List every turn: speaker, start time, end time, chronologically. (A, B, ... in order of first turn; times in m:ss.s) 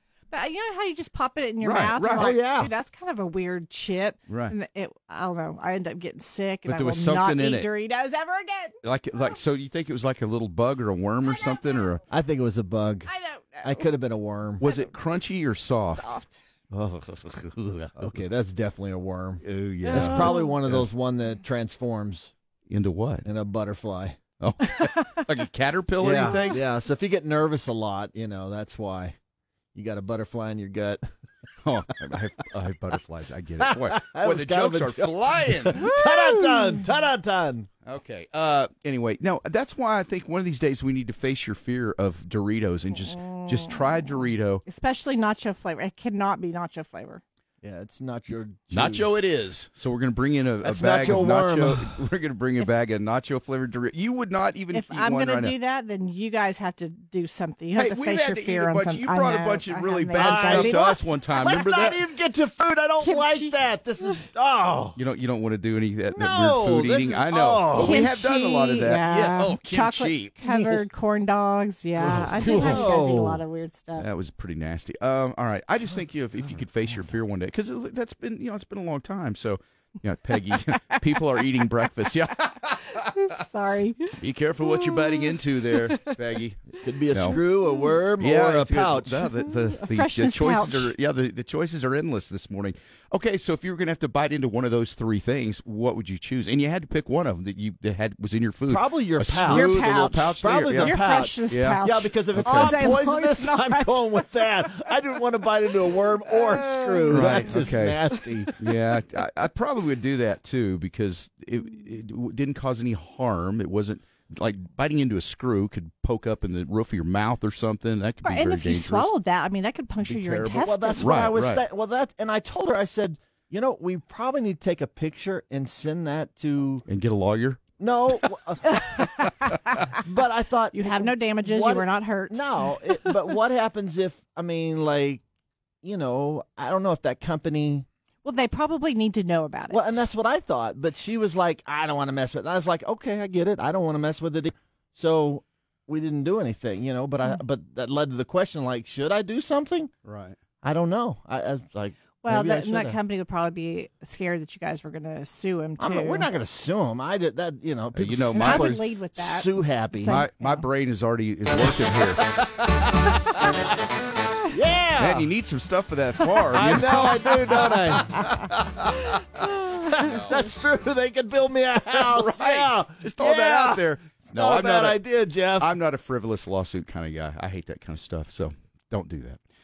0:00.3-0:08.8 A
0:01.6-0:02.3 B
0:02.2-0:02.7 C
0:04.3-0:04.6 B
0:06.6-0:07.7 B
0:08.8-0:12.0 B
0:11.3-0:11.6 A
0:12.1-0:13.1 C
0:13.1-0:13.9 A
0:13.6-0:14.6 C
0:14.6-0:16.1 B
0:14.6-0:15.0 A
0:15.9-0:16.4 A
0:16.7-0:18.2 B
0:18.0-0:22.3 C
0:19.4-0:20.9 B
0:19.8-0:20.6 A
0:22.7-0:23.2 B
0:23.2-0:24.2 C
0:24.4-0:26.6 B
0:24.6-0:25.3 A
0:26.0-0:29.2 C
0:26.2-0:26.6 A
0:29.7-0:31.0 C
0:31.6-0:35.9 B
0:33.6-0:37.7 C
0:35.8-0:36.8 A
0:37.8-0:44.6 B
0:42.9-0:47.2 A
0:47.6-0:49.1 C
0:48.7-0:55.5 B
0:50.6-0:52.0 C
0:54.7-1:01.2 A
0:57.8-1:02.0 B
1:00.1-1:00.9 C
1:01.4-1:05.0 C
1:03.0-1:03.5 A
1:05.0-1:10.8 B
1:06.1-1:08.0 C
1:07.7-1:14.1 A
1:12.0-1:13.4 C
1:12.3-1:13.0 B
1:14.0-1:23.2 B
1:23.0-1:26.2 A
1:24.1-1:27.4 B
1:26.8-1:29.3 C
1:26.8-1:28.0 A
1:28.2-1:43.0 B
1:29.3-1:30.9 A
1:38.7-1:39.8 C
1:39.4-1:44.5 A
1:40.4-1:48.5 C
1:45.9-1:48.7 A
1:47.1-1:48.0 B
1:48.6-1:59.1 B
1:58.2-2:01.3 A
2:00.0-2:01.6 B
2:00.5-2:06.8 C
2:06.9-2:07.6 B
2:07.8-2:09.1 C
2:08.6-2:09.9 A
2:09.9-2:15.2 C
2:10.7-2:13.1 A
2:15.8-2:17.8 C
2:18.2-2:20.0 A
2:19.7-2:29.9 C
2:30.0-2:30.4 B
2:30.6-2:33.0 C
2:32.2-2:36.3 A
2:35.8-2:40.2 C
2:37.9-2:38.8 B
2:38.3-2:40.6 A
2:40.0-2:42.3 B
2:42.2-2:43.1 C
2:44.5-2:45.3 C
2:45.0-2:49.1 B
2:46.2-2:46.5 A
2:46.5-2:48.3 C
2:49.3-2:55.7 C
2:49.9-2:50.5 B
2:51.9-2:55.0 B
2:55.6-2:59.4 B